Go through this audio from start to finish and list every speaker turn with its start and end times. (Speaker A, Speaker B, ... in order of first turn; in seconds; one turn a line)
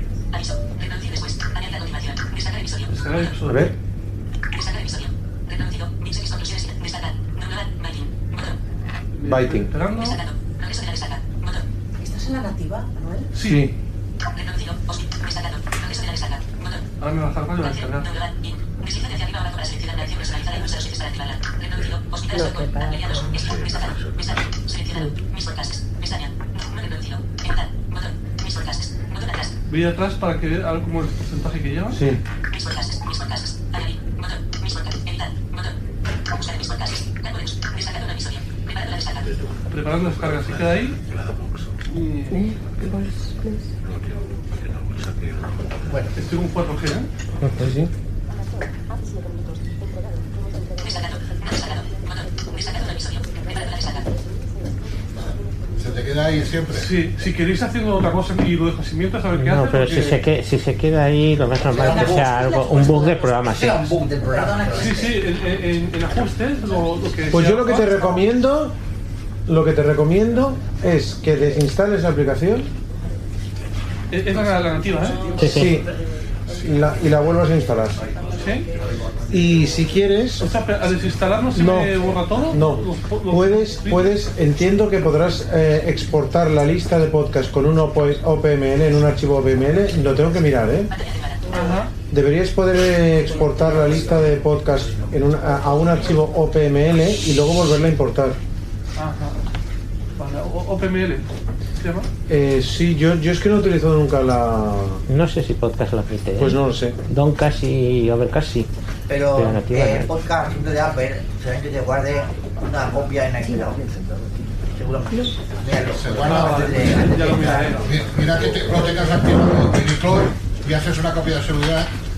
Speaker A: 2.9-3.7
Speaker B: 3.5-3.7
Speaker A: 9.2-10.2
Speaker B: 9.2-9.7
Speaker C: 12.0-13.3
Speaker A: 13.3-13.7
Speaker B: 13.4-13.7
Speaker A: 17.0-18.1
Speaker A: 29.7-32.0
Speaker B: 31.9-32.2
Speaker A: 39.7-41.0
Speaker A: 41.9-42.4
Speaker D: 45.9-46.1
Speaker A: 46.2-47.1
Speaker B: 47.6-47.9
Speaker E: 55.8-56.9
Speaker A: 56.8-60.2
Speaker F: 59.3-63.9
Speaker D: 61.7-65.2
Speaker C: 61.7-63.4
Speaker C: 64.3-65.1
Speaker A: 64.8-68.1
Speaker B: 67.3-68.7
Speaker B: 69.5-72.7
Speaker A: 74.1-75.3
Speaker F: 75.4-75.8
Speaker B: 75.4-75.9
Speaker B: 76.5-78.0
Speaker A: 78.3-78.7
Speaker B: 79.3-80.5
Speaker A: 80.4-84.2
Speaker B: 81.5-90.9
Speaker A: 91.5-91.9
Speaker B: 92.1-98.4
Speaker A: 99.0-99.4
Speaker A: 100.2-101.2
Speaker A: 101.8-102.1
Speaker B: 102.3-105.0
Speaker F: 105.1-108.7
Speaker B: 106.4-107.0
Speaker D: 109.1-113.8
Speaker F: 109.3-110.1
Speaker D: 114.7-118.0
Speaker E: 115.9-116.9
Speaker A: 116.2-117.9
Speaker E: 117.7-121.9